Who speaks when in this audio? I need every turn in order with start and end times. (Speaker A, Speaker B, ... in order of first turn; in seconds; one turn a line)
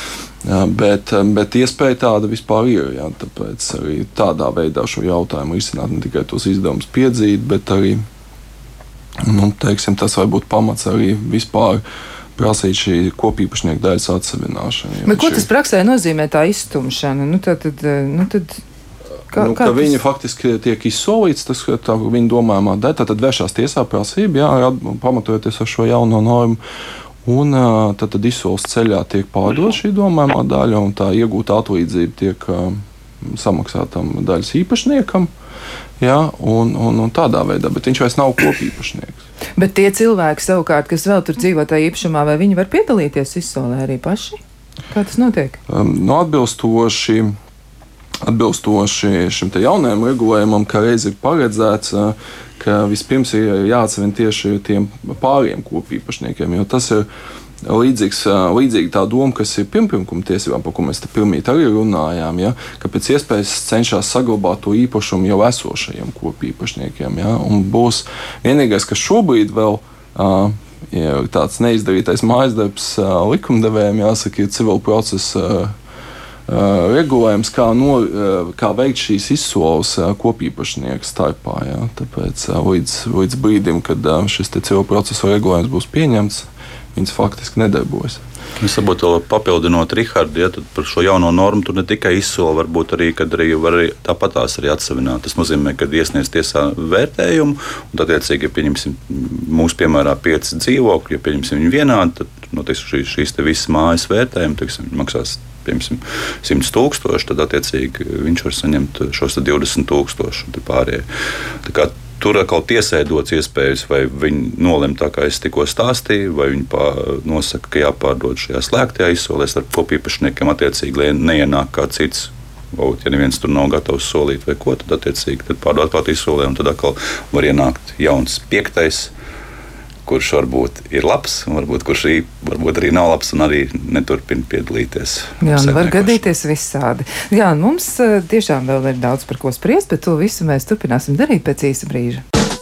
Speaker A: 0.4-8.0
Speaker A: 9.2-11.8
Speaker A: 12.4-15.5
Speaker B: 15.1-18.6
Speaker B: 19.3-19.9
Speaker A: 19.3-26.6
Speaker A: 27.2-35.3
Speaker A: 36.0-39.2
Speaker B: 39.6-44.4
Speaker B: 44.9-45.6
Speaker A: 45.7-47.3
Speaker A: 48.2-57.1
Speaker A: 57.6-75.7
Speaker A: 76.5-88.2
Speaker C: 88.6-111.0
Speaker C: 111.6-129.1
Speaker C: 130.1-136.2
Speaker B: 135.4-142.2